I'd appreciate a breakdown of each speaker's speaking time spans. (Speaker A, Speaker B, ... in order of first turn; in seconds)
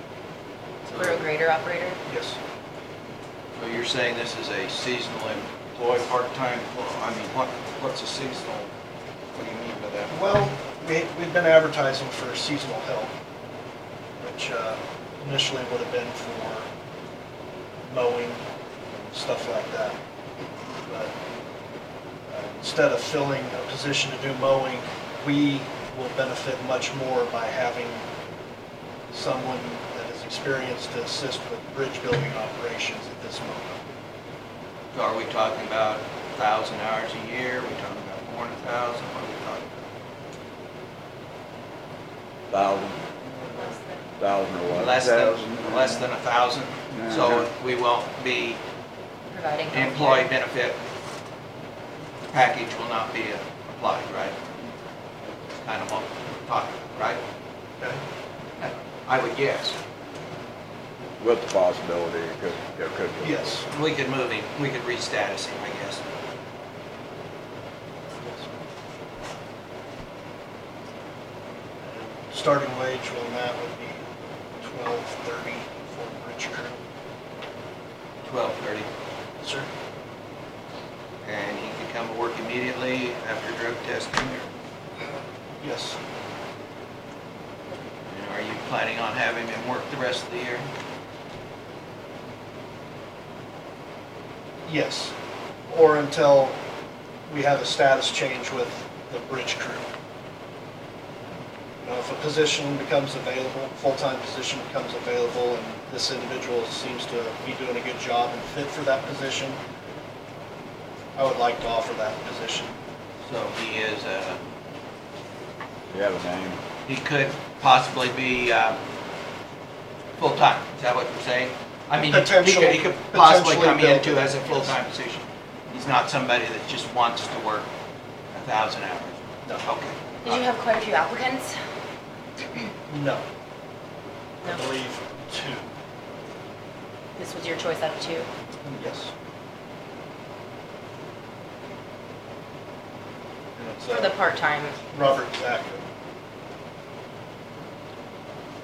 Speaker A: 0.8-1.2, 3.5-8.7, 9.3-10.1, 34.9-39.7, 44.7-48.6, 49.7-50.8, 52.3-54.4, 55.5-57.2, 58.6-59.8, 63.7-66.0, 78.2-78.9, 81.2-84.5, 88.1-90.7, 113.2-114.4, 116.8-118.8, 120.2-127.7, 128.3-130.4
Speaker B: 0.9-2.0, 43.4-44.1, 49.3-50.3, 130.2-131.5, 137.2-138.3, 143.9-144.8
Speaker C: 2.1-2.4, 10.1-13.1, 14.2-16.7, 17.9-20.0, 20.9-21.1, 22.3-28.1, 29.1-33.8, 63.2-63.7, 68.2-68.5, 71.8-74.0, 74.6-76.8, 79.4-79.7, 85.6-86.0, 94.7-95.1, 95.7-96.5, 97.3-99.8, 101.8-109.6, 111.2-112.8, 122.0-124.8, 132.9-133.2, 134.4-135.7, 138.6-139.1, 143.6-144.1, 144.9-145.9
Speaker D: 42.5-43.0, 44.2-46.0, 46.9-47.4, 61.2-63.5, 115.9-116.6